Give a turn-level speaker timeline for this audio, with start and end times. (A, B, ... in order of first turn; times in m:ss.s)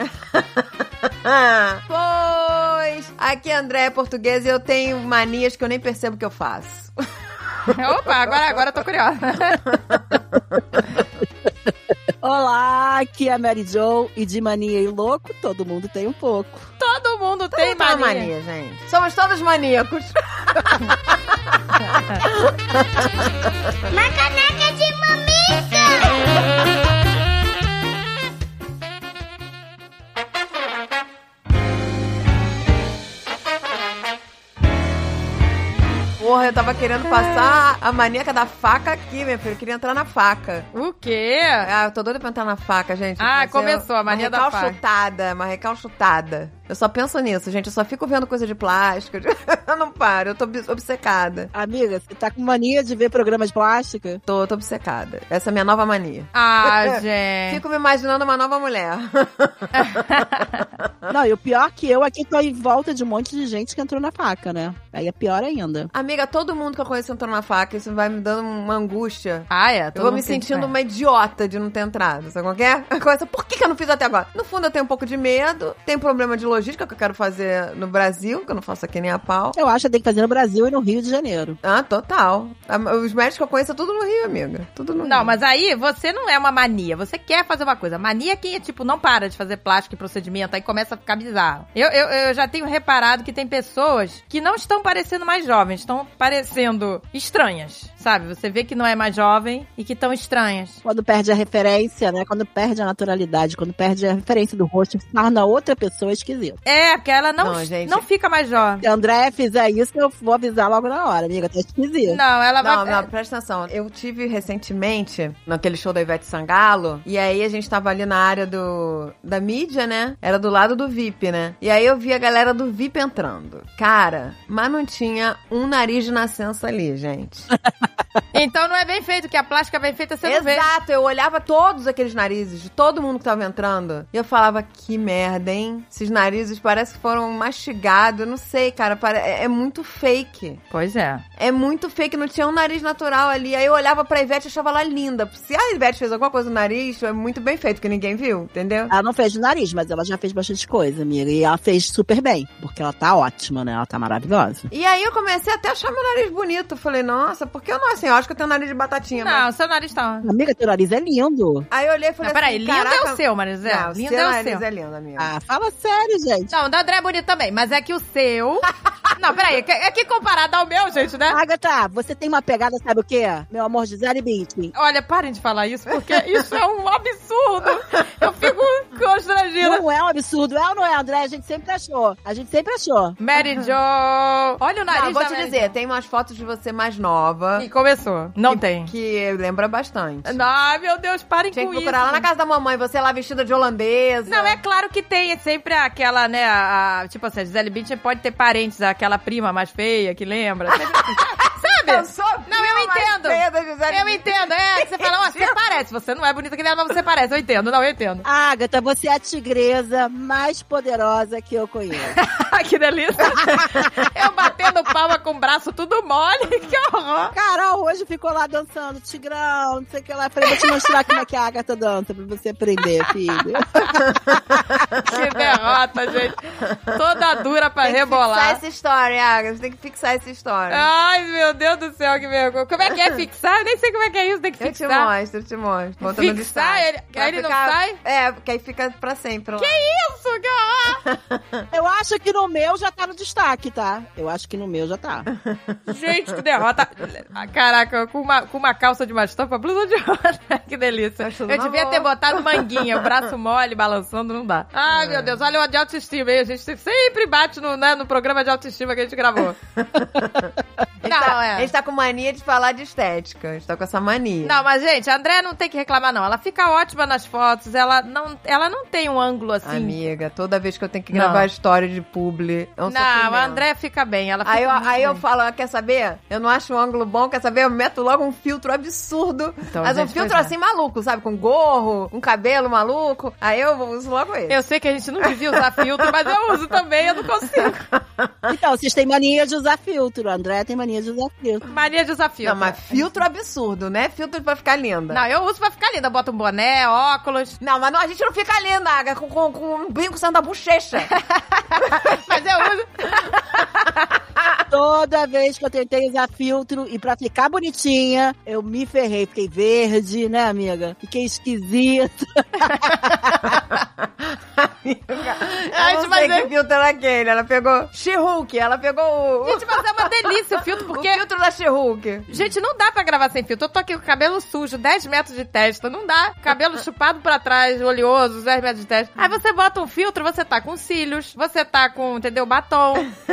0:00.3-0:06.9 A
0:07.7-0:09.6 B
0:09.7-0:10.2 A
0:12.2-0:16.7 C
0:16.8-0:18.3 B
0:17.5-0:23.3 A
0:21.8-0:22.2 B
0:23.9-0:26.2 D
0:36.2-0:40.7 A
0:37.0-0:37.6 B
0:40.7-0:41.7 B
0:41.6-0:51.5 A
0:43.2-0:44.8 B
0:51.5-0:54.2 C
0:54.3-1:00.3 A
0:56.3-0:57.6 B
0:59.8-1:00.4 B
1:01.1-1:05.9 C
1:05.9-1:19.6 A
1:09.5-1:10.7 B
1:19.5-1:21.6 C
1:21.6-1:25.3 A
1:25.0-1:40.8 B
1:40.8-1:46.6 C
1:46.6-1:48.8 B
1:47.4-1:48.0 A
1:48.8-1:52.2 C
1:52.0-1:53.1 B
1:52.6-2:07.5 A
2:08.3-2:10.6 B
2:10.2-2:20.6 A
2:20.7-2:21.2 B
2:21.4-2:28.9 A
2:28.9-2:34.7 C
2:34.7-2:39.4 A
2:39.2-2:40.2 B
2:40.2-2:41.7 C
2:41.7-2:45.3 A
2:42.2-2:44.6 B
2:45.2-2:46.5 C
2:46.5-2:51.4 B
2:51.3-2:54.7 C
2:54.7-2:59.8 B
2:59.6-3:03.2 C
3:03.2-3:05.7 B
3:04.9-3:07.7 A
3:07.6-3:08.9 B
3:08.4-3:10.4 A
3:10.2-3:12.2 B
3:11.5-3:14.6 A
3:14.3-3:28.2 B
3:20.9-3:25.5 A
3:28.2-3:32.2 C
3:32.0-3:37.3 B
3:37.3-3:43.8 C
3:40.6-3:40.9 B
3:43.3-3:44.0 B
3:45.0-3:48.6 B
3:47.8-3:50.9 A
3:50.7-3:55.1 B
3:54.6-3:59.8 A
3:56.0-3:58.0 B
3:59.6-4:01.0 B
4:01.0-4:01.6 A
4:01.7-4:05.3 C
4:05.9-4:19.6 B
4:11.2-4:13.0 A
4:14.9-4:15.3 A
4:19.8-4:24.6 A
4:21.0-4:21.7 B
4:24.4-4:30.0 B
4:29.6-4:33.6 A
4:31.1-4:31.4 B
4:32.9-4:35.2 B
4:34.4-4:44.6 A
4:39.7-4:40.5 B
4:44.5-4:47.8 B
4:45.2-4:45.8 A
4:47.6-4:48.5 A
4:48.5-4:51.6 C
4:51.7-4:53.1 B
4:52.4-4:55.2 A
4:55.1-4:57.6 B
4:57.6-5:01.1 A
5:01.1-5:03.9 B
5:01.9-5:02.4 A
5:04.7-5:13.5 C
5:14.6-5:20.1 A
5:15.7-5:16.5 B
5:19.4-5:21.2 B
5:20.9-5:22.3 A
5:22.3-5:33.1 B